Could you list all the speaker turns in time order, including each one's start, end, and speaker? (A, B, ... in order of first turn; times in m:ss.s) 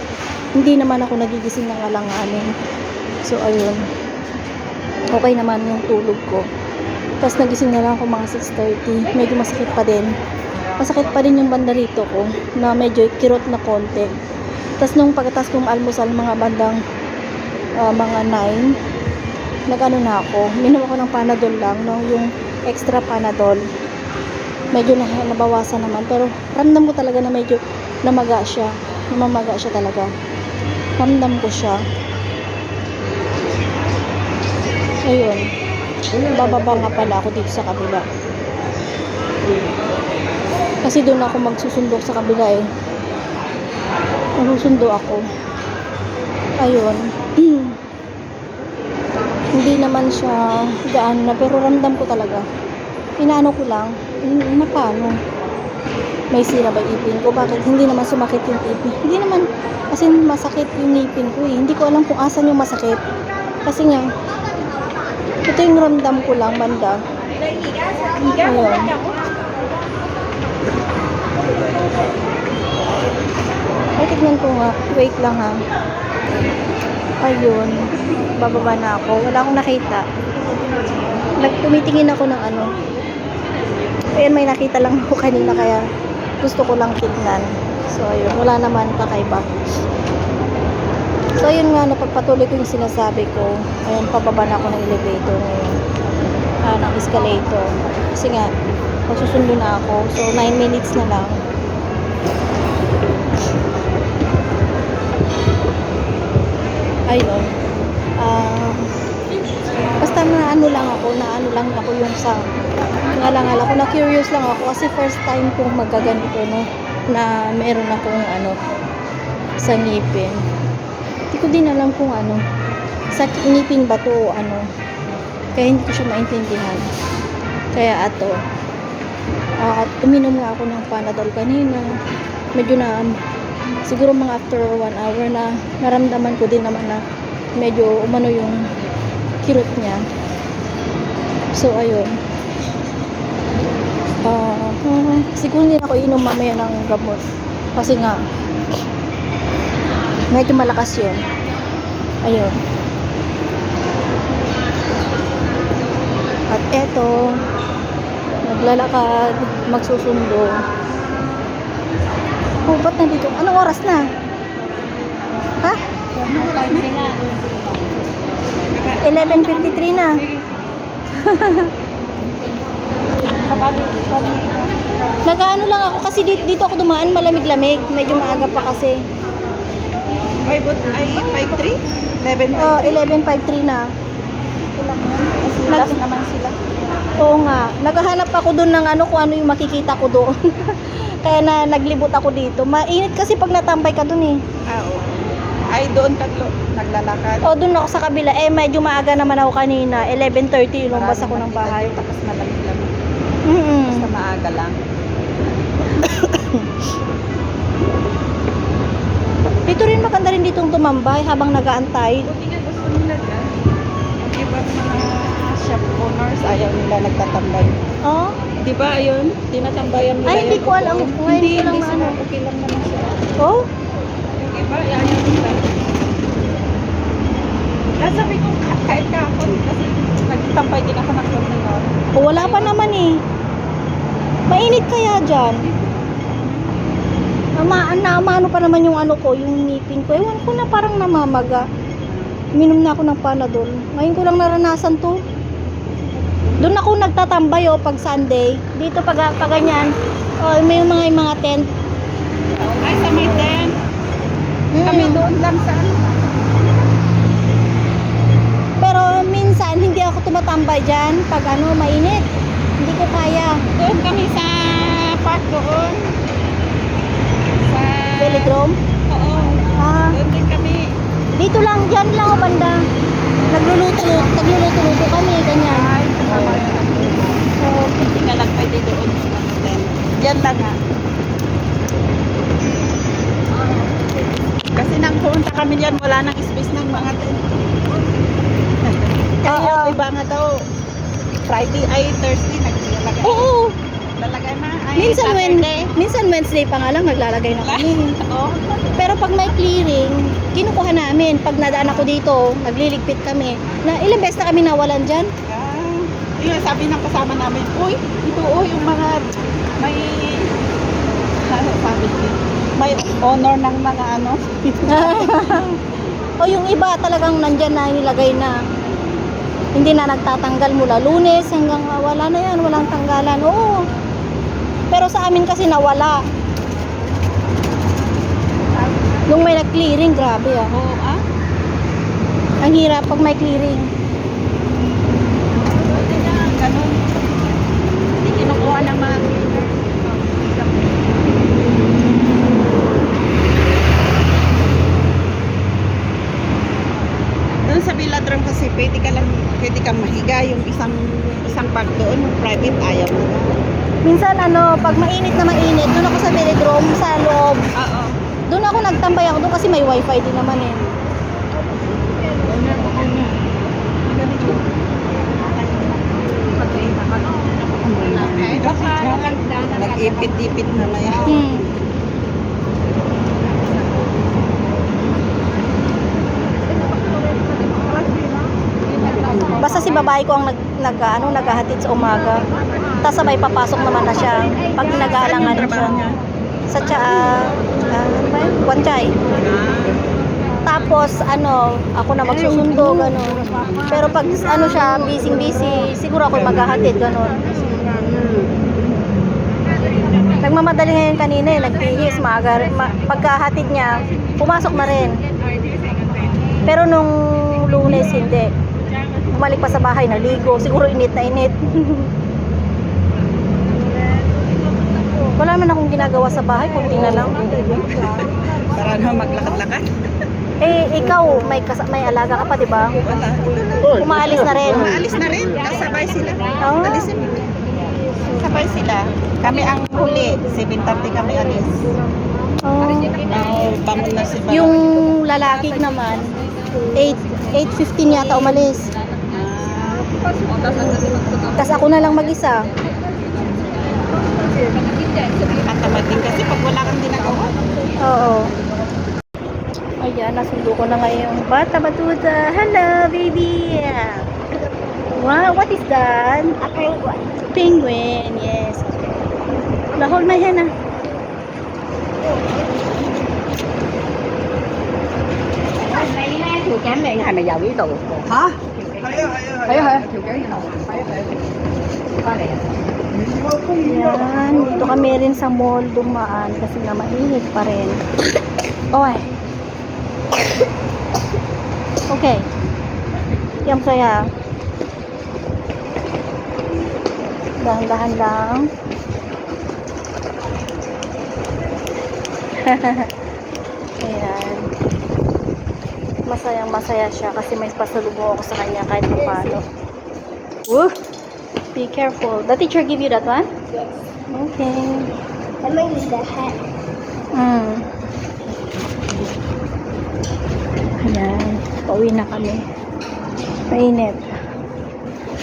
0:00.6-0:02.5 A
0:03.2-0:03.8 A
0:05.1-0:06.4 A
0:07.2-0:10.1 A
0:10.8-0:14.1 A
0:14.8-0:16.8 A
0:17.8-0:18.7 A
0:19.7-0:23.6 A
0:24.7-0:30.1 A
0:31.0-0:31.8 A
0:35.1-0:35.4 A
0:36.3-0:38.0 A
0:40.8-0:42.6 A
0:44.4-0:45.2 A
0:46.6-0:47.8 A
0:49.6-0:52.4 A
0:53.2-0:55.2 A
0:56.3-1:03.0 A
1:03.6-1:04.0 A
1:05.5-1:07.0 A
1:08.3-1:09.0 A
1:14.0-1:15.5 A
1:17.2-1:20.0 A
1:21.4-1:22.7 A
1:24.2-1:25.8 A
1:26.4-1:29.4 A
1:31.4-1:35.8 A
1:36.6-1:37.6 A
1:38.2-1:38.5 A
1:39.1-1:41.4 A
1:47.1-1:47.4 A
1:48.2-1:48.8 A
1:50.0-1:52.4 A
1:53.1-1:58.6 A
1:59.6-2:00.4 A
2:01.3-2:02.4 A
2:03.1-2:04.6 A
2:05.5-2:06.8 A
2:07.7-2:08.4 A
2:09.6-2:11.8 A
2:12.6-2:13.1 A
2:13.9-2:17.0 A
2:17.6-2:18.6 A
2:19.4-2:20.0 A
2:21.5-2:22.1 A
2:24.2-2:27.2 A
2:27.8-2:28.2 A
2:30.3-2:31.2 A
2:32.2-2:32.5 A
2:36.5-2:37.2 A
2:38.5-2:40.6 A
2:42.6-2:44.0 A
2:46.2-2:47.1 B
2:48.8-2:49.5 B
2:49.0-2:50.2 A
2:51.1-2:51.7 A
2:53.5-2:54.7 B
2:55.2-2:59.0 A
3:00.4-3:03.0 B
3:02.6-3:03.8 A
3:04.8-3:06.5 B
3:05.7-3:06.0 A
3:07.2-3:14.4 A
3:14.7-3:15.0 B
3:15.7-3:17.4 B
3:17.4-3:22.0 A
3:20.9-3:22.9 B
3:23.5-3:24.0 A
3:23.8-3:24.8 B
3:25.9-3:26.7 A
3:29.7-3:32.3 A
3:32.3-3:33.5 B
3:34.2-3:37.8 B
3:38.0-3:38.4 A
3:38.6-3:43.3 B
3:40.2-3:42.2 A
3:43.4-3:43.6 A
3:44.4-3:45.7 B
3:48.0-3:52.8 B
3:52.1-3:53.2 A
3:54.5-3:55.7 A
3:57.6-4:01.6 A
4:02.6-4:05.2 A
4:06.6-4:11.7 A
4:12.5-4:13.7 B
4:14.7-4:15.2 A
4:14.8-4:16.0 B
4:18.8-4:22.2 A
4:22.8-4:23.6 A
4:23.8-4:26.1 B
4:27.6-4:28.6 B
4:28.2-4:28.8 A
4:29.1-4:30.9 B
4:29.8-4:30.2 A
4:31.4-4:32.8 A
4:33.5-4:35.9 A
4:35.6-4:40.8 B
4:37.6-4:38.0 A
4:44.7-4:47.5 B
4:48.8-4:50.6 B
4:49.4-4:50.0 A
4:51.4-4:53.5 B
4:53.2-4:53.7 A
4:54.2-4:55.9 B
4:55.0-4:58.2 A
4:57.6-4:58.6 B
4:59.0-5:05.3 A
5:01.8-5:02.1 B
5:05.4-5:09.2 B
5:09.7-5:10.5 B
5:11.4-5:15.6 B
5:14.8-5:15.8 A
5:16.4-5:18.5 A
5:19.7-5:23.8 A
5:24.9-5:26.2 A
5:29.3-5:30.7 A
5:30.7-5:31.2 B
5:32.6-5:33.9 A
5:35.7-5:37.0 B
5:38.2-5:39.7 B
5:40.2-5:40.6 B
5:47.6-5:53.6 B
5:54.0-5:57.6 A
5:57.8-5:58.2 B
5:58.5-6:00.8 A
6:02.5-6:03.3 B
6:04.0-6:04.6 B
6:06.6-6:07.0 B
6:07.8-6:11.5 B
6:11.2-6:11.7 A
6:19.5-6:22.4 A
6:23.0-6:26.0 A
6:24.9-6:26.2 B
6:26.7-6:29.1 A
6:29.3-6:30.0 B
6:30.6-6:37.7 A
6:37.9-6:38.2 C
6:40.3-6:45.2 A
6:46.6-6:48.5 A
6:49.3-6:52.1 A
6:55.3-6:57.4 A
6:57.2-6:59.9 B
7:00.6-7:03.0 A
7:03.0-7:07.5 B
7:03.9-7:05.0 A
7:06.6-7:07.0 A
7:08.3-7:11.9 B
7:12.6-7:13.2 A
7:13.2-7:14.8 B
7:14.5-7:16.2 A
7:17.0-7:18.9 A
7:19.3-7:20.1 B
7:21.6-7:22.6 A
7:25.3-7:27.6 B
7:28.0-7:28.5 A
7:30.0-7:34.3 A
7:35.1-7:36.6 A
7:36.6-7:37.2 C
7:37.5-7:39.2 A
7:39.9-7:40.7 A
7:45.9-7:51.4 C
7:52.2-7:52.7 C
7:53.8-7:58.0 A
7:58.9-7:59.2 A
8:02.1-8:02.4 A
8:03.6-8:04.2 A
8:07.6-8:08.6 A
8:12.6-8:13.1 A
8:14.0-8:14.7 A
8:16.3-8:19.6 A
8:20.7-8:20.9 A
8:21.7-8:23.5 A
8:24.3-8:25.1 A
8:25.6-8:26.5 C
8:27.3-8:27.8 A
8:31.0-8:32.6 A
8:33.7-8:34.2 A